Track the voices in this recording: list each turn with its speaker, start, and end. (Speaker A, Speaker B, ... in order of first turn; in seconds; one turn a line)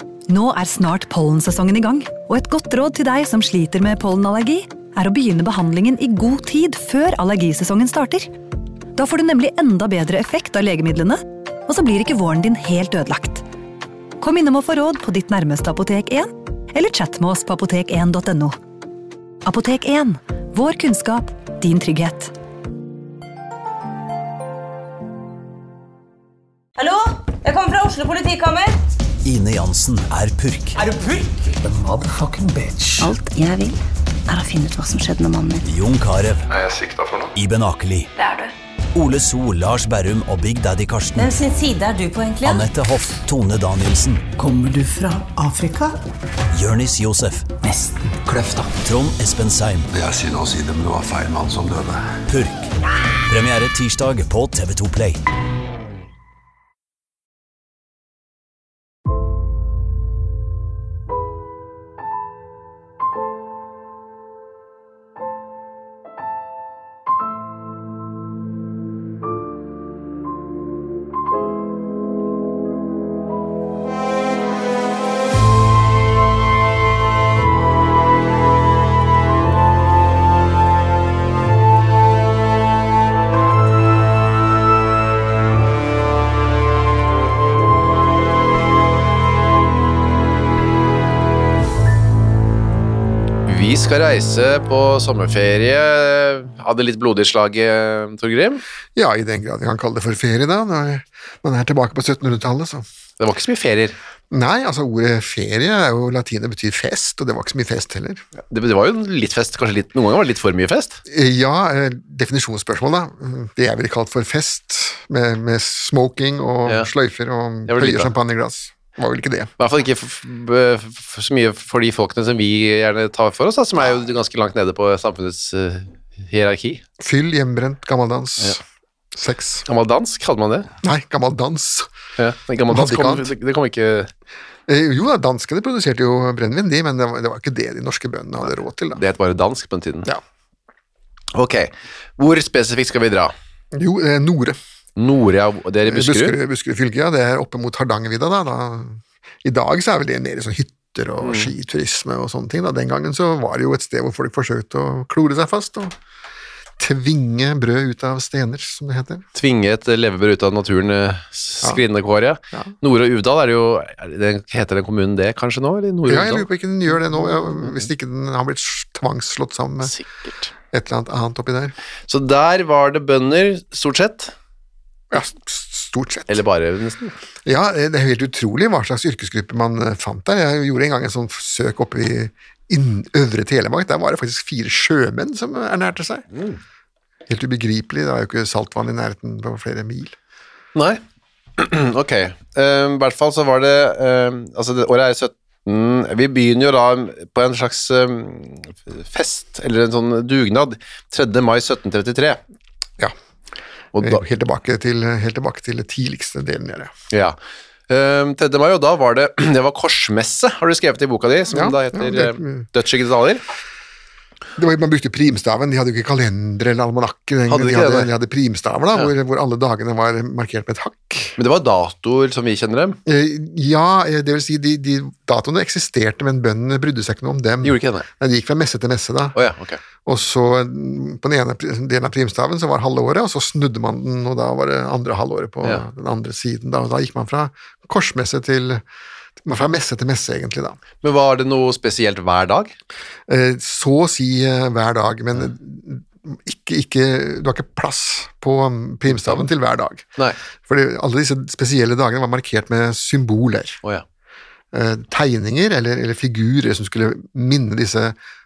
Speaker A: 0.3-8.3
Speaker A: 8.9-13.4
Speaker A: 14.2-18.6
Speaker A: 19.4-22.3
Speaker B: 26.8-28.8
Speaker C: 29.2-30.8
Speaker D: 31.1-33.1
Speaker E: 33.0-35.6
Speaker C: 35.6-36.5
Speaker F: 36.5-37.3
Speaker C: 37.3-38.1
Speaker B: 38.2-38.5
Speaker C: 38.9-41.3
Speaker B: 41.2-42.7
Speaker C: 42.4-44.2
Speaker D: 44.4-46.0
Speaker C: 46.5-47.5
Speaker D: 47.6-48.7
Speaker C: 48.8-49.9
Speaker F: 49.9-52.2
Speaker C: 52.3-52.7
Speaker C: 53.3-55.2
Speaker G: 93.5-98.6
Speaker H: 99.0-102.8
Speaker G: 103.2-104.0
Speaker H: 104.3-108.2
Speaker G: 108.4-111.0
Speaker H: 111.0-119.5
Speaker G: 117.7-118.1
Speaker G: 119.6-126.8
Speaker H: 127.0-128.6
Speaker H: 129.1-129.7
Speaker G: 129.7-130.7
Speaker H: 130.8-131.9
Speaker G: 132.2-134.1
Speaker H: 132.7-133.3
Speaker H: 134.7-139.0
Speaker G: 138.9-140.1
Speaker G: 141.3-143.3
Speaker H: 143.7-144.6
Speaker G: 145.0-146.4
Speaker H: 145.8-155.9
Speaker G: 151.2-151.5
Speaker H: 156.8-159.2
Speaker G: 159.3-167.9
Speaker H: 166.1-169.9
Speaker G: 169.8-170.5
Speaker H: 170.7-171.7
Speaker G: 172.1-174.3
Speaker H: 175.1-176.4
Speaker G: 176.3-177.2
Speaker H: 177.4-186.2
Speaker G: 186.3-186.6
Speaker H: 187.3-190.1
Speaker G: 190.7-191.0
Speaker G: 191.6-202.4
Speaker G: 203.9-204.2
Speaker H: 203.9-206.9
Speaker G: 207.9-213.4
Speaker H: 211.5-212.6
Speaker H: 214.6-221.4
Speaker G: 217.5-218.1
Speaker G: 221.4-223.0
Speaker H: 223.1-229.4
Speaker G: 227.6-228.1
Speaker G: 229.3-229.8
Speaker H: 230.1-238.8
Speaker H: 239.4-240.8
Speaker G: 241.0-242.7
Speaker H: 243.3-250.1
Speaker G: 249.1-249.5
Speaker H: 250.7-253.8
Speaker H: 254.7-258.1